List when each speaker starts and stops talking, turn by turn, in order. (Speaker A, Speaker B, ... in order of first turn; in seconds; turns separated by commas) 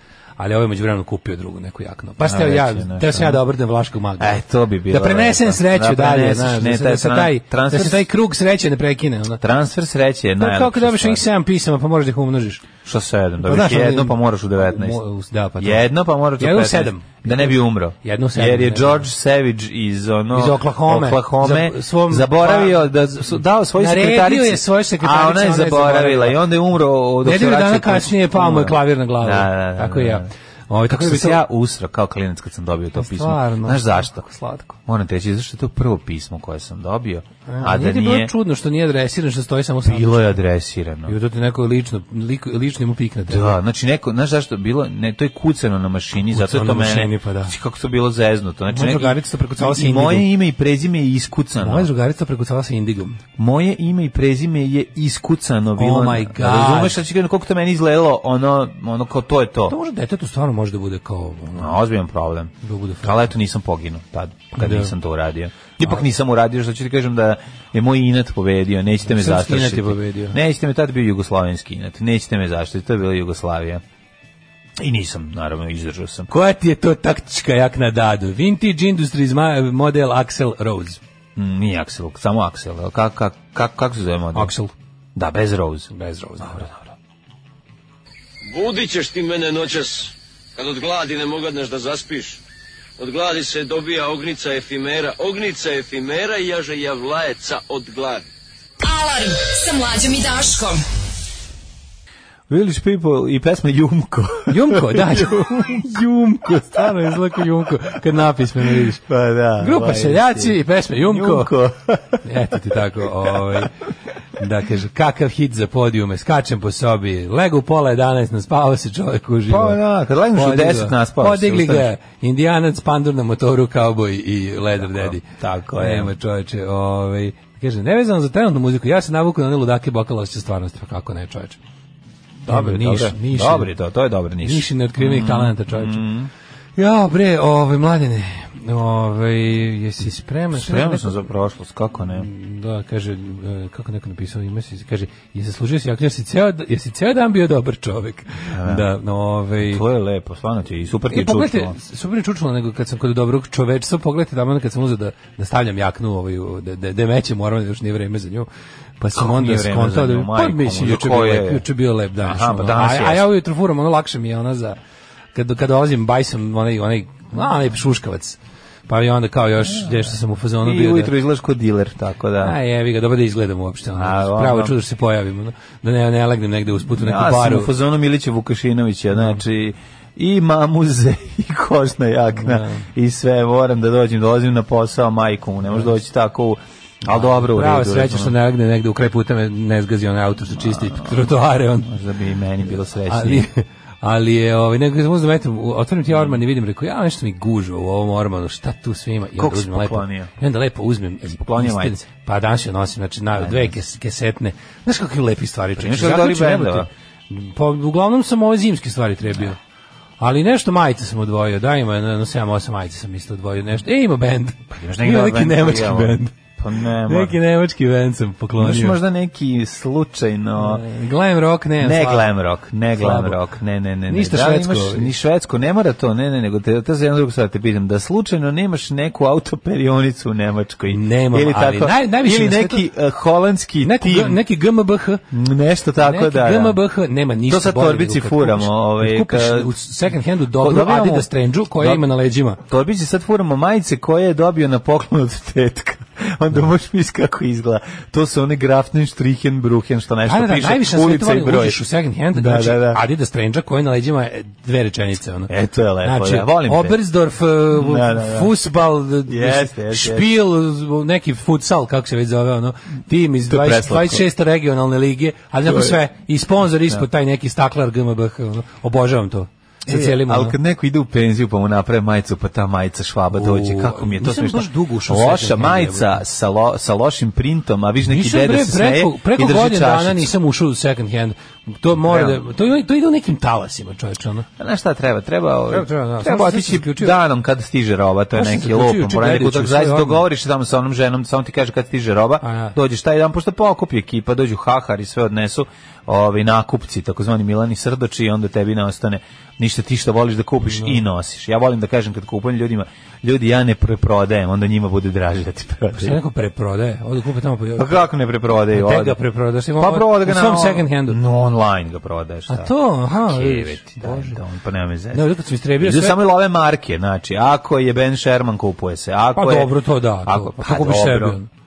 Speaker A: 0.4-9.4, Speaker B: 2.2-3.4, Speaker B: 4.2-8.1, Speaker B: 9.4-11.2, Speaker A: 10.4-12.6, Speaker B: 12.8-15.0, Speaker A: 13.4-19.1, Speaker B: 15.6-30.3, Speaker A: 20.3-22.9, Speaker A: 23.8-26.4, Speaker A: 27.2-31.4, Speaker B: 30.9-34.2, Speaker A: 33.0-34.8, Speaker B: 34.8-38.3, Speaker A: 37.5-40.4, Speaker B: 39.9-41.2, Speaker A: 41.1-43.6, Speaker B: 43.3-51.9, Speaker A: 46.3-47.5, Speaker A: 48.7-50.3, Speaker A: 51.6-53.2, Speaker B: 53.4-59.8, Speaker A: 55.8-57.0, Speaker A: 59.7-61.8, Speaker B: 61.5-73.8, Speaker A: 62.6-63.2, Speaker A: 64.6-64.9, Speaker A: 69.1-70.4, Speaker B: 74.8-76.3, Speaker A: 76.3-81.0, Speaker B: 81.4-84.5, Speaker A: 84.3-84.7, Speaker B: 85.2-85.9, Speaker A: 85.9-86.7, Speaker B: 86.4-86.8, Speaker C: 88.5-92.4, Speaker C: 93.0-98.3, Speaker D: 98.8-100.8, Speaker B: 102.5-107.5, Speaker A: 104.5-109.0, Speaker B: 108.6-112.2, Speaker A: 109.6-111.5, Speaker A: 112.2-113.7, Speaker B: 113.2-113.7, Speaker A: 114.4-119.8, Speaker B: 119.5-121.9, Speaker A: 120.3-125.2, Speaker B: 124.8-126.1, Speaker A: 125.8-131.6, Speaker A: 132.4-133.7, Speaker B: 132.5-136.3, Speaker A: 134.4-136.1, Speaker A: 136.8-141.2, Speaker B: 140.5-142.3, Speaker A: 142.2-149.8, Speaker B: 148.5-148.9, Speaker B: 149.6-151.7, Speaker A: 151.1-158.5, Speaker A: 159.0-164.8, Speaker B: 159.2-161.7, Speaker B: 162.2-163.3, Speaker A: 165.3-171.1, Speaker B: 169.7-172.6, Speaker A: 172.4-177.7, Speaker B: 173.9-174.8, Speaker B: 176.9-188.4, Speaker A: 179.1-179.4, Speaker A: 182.4-182.9, Speaker A: 187.1-191.9, Speaker B: 190.6-191.3, Speaker B: 191.8-193.5, Speaker A: 193.1-209.6, Speaker B: 196.1-196.4, Speaker B: 199.4-200.3, Speaker B: 201.4-202.0, Speaker B: 203.4-203.8, Speaker B: 205.8-206.9, Speaker A: 210.2-216.3, Speaker B: 214.7-217.4, Speaker A: 217.1-219.0, Speaker B: 218.6-220.8, Speaker A: 220.6-222.3, Speaker B: 221.8-234.4, Speaker A: 223.0-223.4, Speaker A: 224.1-225.1, Speaker A: 230.9-232.8, Speaker A: 233.8-235.2, Speaker B: 235.3-236.8, Speaker A: 236.0-242.6, Speaker B: 237.5-239.7, Speaker B: 240.5-242.1, Speaker B: 242.6-251.8, Speaker A: 250.3-255.5, Speaker B: 252.3-253.0, Speaker B: 255.5-257.0, Speaker A: 256.0-270.6, Speaker B: 257.7-258.5, Speaker B: 259.3-260.3, Speaker B: 263.4-264.3, Speaker B: 265.6-266.0, Speaker B: 269.9-280.3, Speaker A: 273.3-276.2, Speaker A: 278.1-284.5, Speaker B: 282.0-282.4, Speaker B: 284.6-306.2, Speaker A: 285.7-287.2, Speaker A: 288.4-290.2, Speaker A: 292.4-292.8, Speaker A: 300.6-301.0, Speaker A: 305.9-308.1, Speaker B: 307.8-309.2, Speaker A: 308.7-311.2, Speaker B: 309.8-321.4, Speaker A: 312.5-314.4, Speaker A: 315.1-316.2, Speaker A: 319.4-321.5